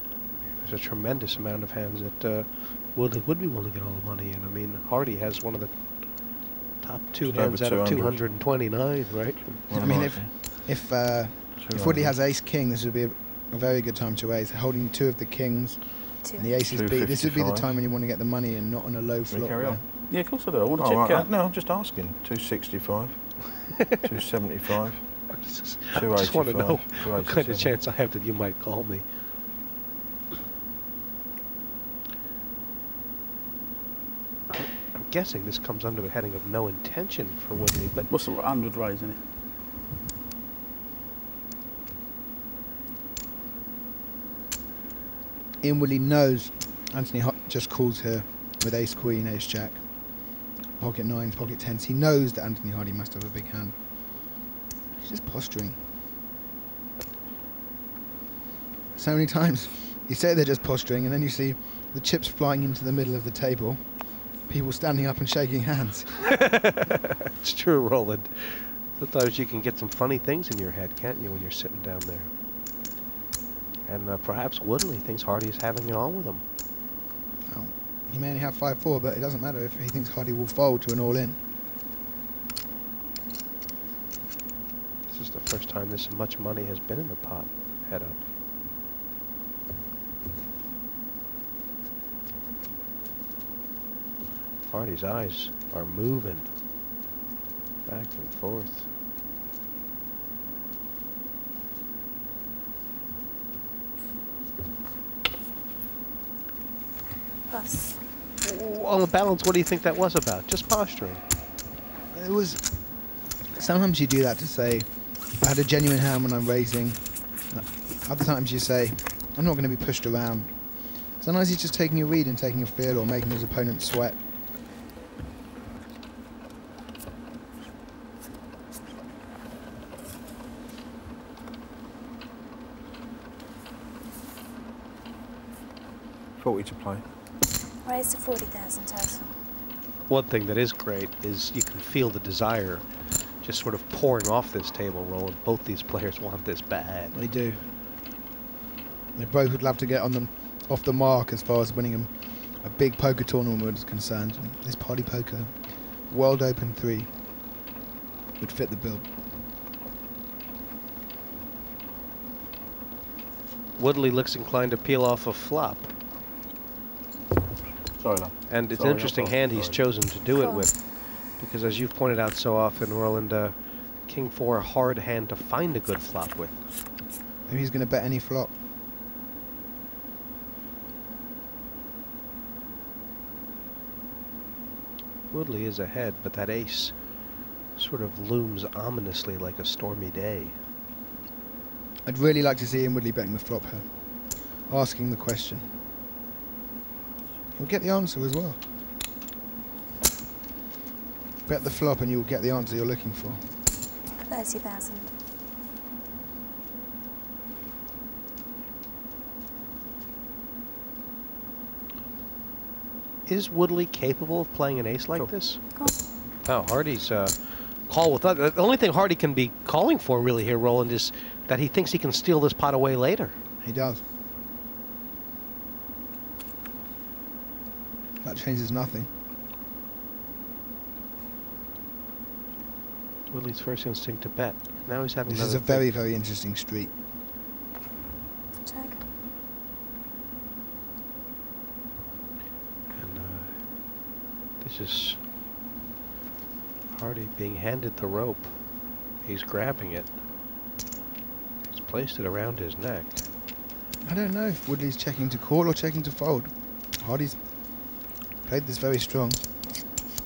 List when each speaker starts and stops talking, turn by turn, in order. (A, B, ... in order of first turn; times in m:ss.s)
0:00.6-0:09.7 A
0:07.2-0:08.2 B
0:09.4-0:10.6 B
0:09.7-0:19.8 C
0:11.6-0:12.2 B
0:16.2-0:16.7 D
0:16.7-0:17.7 B
0:19.3-0:19.9 B
0:20.1-0:21.3 E
0:20.8-0:23.4 B
0:24.0-0:25.2 B
0:25.3-0:29.0 A
0:25.9-0:27.7 B
0:34.5-0:38.1 A
0:38.0-0:39.2 E
0:45.6-0:54.3 C
0:55.0-0:55.8 C
0:58.9-1:06.3 C
1:06.2-1:12.3 A
1:13.8-1:16.4 A
1:17.4-1:21.4 C
1:25.1-1:28.2 A
1:34.7-1:36.5 A
1:37.8-1:38.8 A
1:47.5-1:48.0 D
1:48.4-1:51.2 A
1:52.1-1:52.8 C
1:53.5-2:04.2 C
2:16.4-2:17.0 B
2:17.8-2:19.3 D
2:20.1-2:22.8 A
2:23.4-2:27.1 A
2:27.1-2:27.7 C
2:29.1-2:37.1 C
2:38.4-2:39.1 C
2:43.8-2:45.9 A
2:48.0-2:49.8 E
2:48.5-2:53.5 A
2:50.4-2:50.7 D
2:54.0-2:56.6 A
2:57.5-2:58.5 C
3:05.3-3:07.0 A
3:07.8-3:10.5 A
3:12.0-3:15.7 C
3:17.5-3:18.6 C
3:21.4-3:23.6 C
3:24.2-3:25.1 D
3:33.2-3:35.6 A
3:36.4-3:37.3 A
3:37.9-3:43.3 A
3:43.6-3:44.0 C
3:48.2-3:49.1 C
3:53.3-3:55.8 A
3:55.3-3:56.9 C
3:58.6-3:59.0 D
4:02.9-4:03.9 A
4:04.6-4:05.2 A
4:06.9-4:08.6 A
4:09.2-4:10.1 A
4:11.7-4:13.2 A
4:14.0-4:19.5 C